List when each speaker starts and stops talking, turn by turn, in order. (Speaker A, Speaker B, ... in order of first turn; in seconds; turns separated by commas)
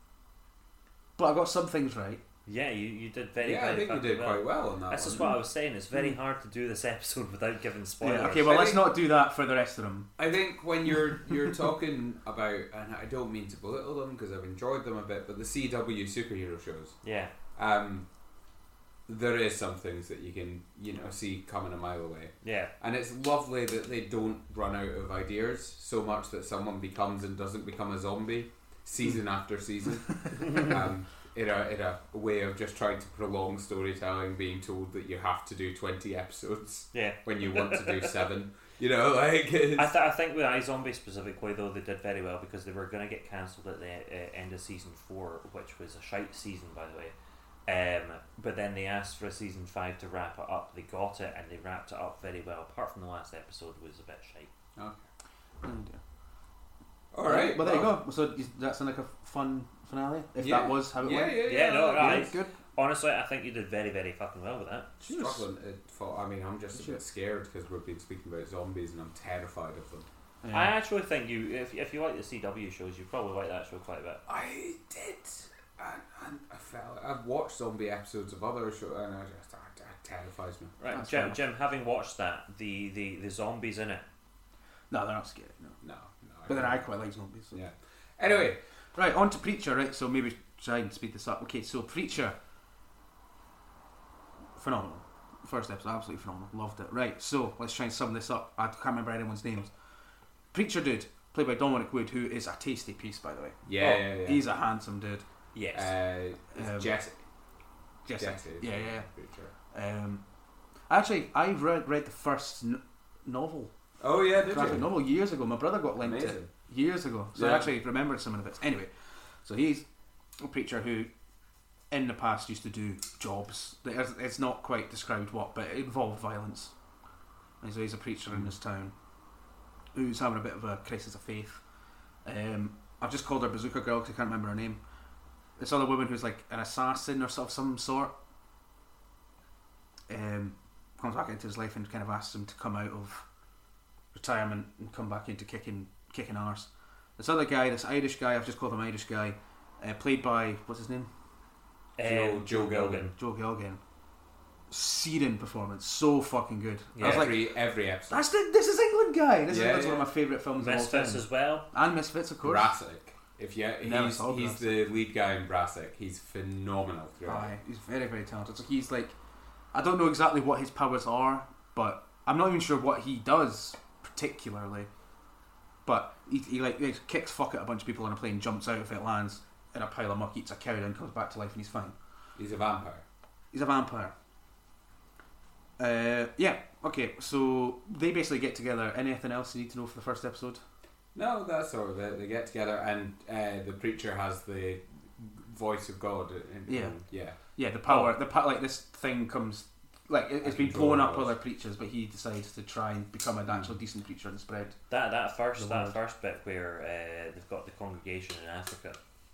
Speaker A: 1.2-2.2, Speaker B: 2.5-8.5, Speaker C: 3.4-5.3, Speaker A: 8.0-10.1, Speaker C: 8.4-8.9, Speaker C: 10.2-17.0, Speaker B: 17.0-17.3, Speaker C: 17.5-18.1, Speaker C: 19.1-39.9, Speaker B: 22.4-22.7, Speaker B: 30.4-30.6, Speaker B: 36.9-38.1, Speaker B: 39.8-47.1, Speaker B: 47.7-54.5, Speaker C: 54.8-55.0, Speaker A: 55.6-56.0, Speaker C: 57.1-58.0, Speaker A: 57.2-62.5, Speaker C: 60.4-62.3, Speaker B: 61.4-64.9, Speaker C: 65.0-70.1, Speaker A: 65.0-65.4, Speaker A: 66.7-67.0, Speaker A: 70.4-70.7, Speaker B: 70.5-74.2, Speaker C: 74.3-80.8, Speaker B: 80.8-84.0, Speaker A: 80.9-81.4, Speaker A: 84.9-85.8, Speaker C: 85.8-86.8, Speaker A: 86.5-87.6, Speaker C: 87.5-88.6, Speaker A: 88.3-92.4, Speaker A: 94.6-99.7, Speaker A: 100.5-105.2, Speaker C: 103.6-104.4, Speaker B: 105.5-105.9, Speaker C: 105.8-107.2, Speaker A: 106.5-106.9, Speaker A: 108.1-109.1, Speaker C: 108.2-109.5, Speaker A: 109.7-110.2, Speaker A: 110.9-113.7, Speaker C: 114.0-114.9, Speaker A: 114.4-118.9, Speaker C: 116.0-116.5, Speaker C: 117.3-117.7, Speaker A: 119.4-119.9, Speaker A: 120.4-121.1, Speaker A: 121.9-126.7, Speaker A: 127.6-128.9, Speaker A: 129.9-131.6, Speaker A: 132.2-134.8, Speaker A: 135.6-138.1, Speaker A: 140.1-143.3, Speaker A: 144.1-151.1, Speaker B: 152.0-153.1, Speaker C: 152.0-153.1, Speaker A: 152.1-153.8, Speaker A: 154.7-157.5, Speaker B: 156.9-157.3, Speaker C: 157.0-158.2, Speaker A: 158.1-162.8, Speaker C: 159.5-160.1, Speaker B: 160.6-161.7, Speaker C: 162.4-167.5, Speaker A: 163.8-164.8, Speaker A: 167.2-169.1, Speaker A: 169.7-174.9, Speaker A: 175.8-181.9, Speaker C: 182.4-183.0, Speaker A: 183.5-184.1, Speaker A: 185.8-190.6, Speaker C: 191.1-197.4, Speaker A: 196.7-204.8, Speaker B: 197.9-198.1, Speaker C: 200.4-201.3, Speaker B: 204.9-209.0, Speaker A: 205.6-206.0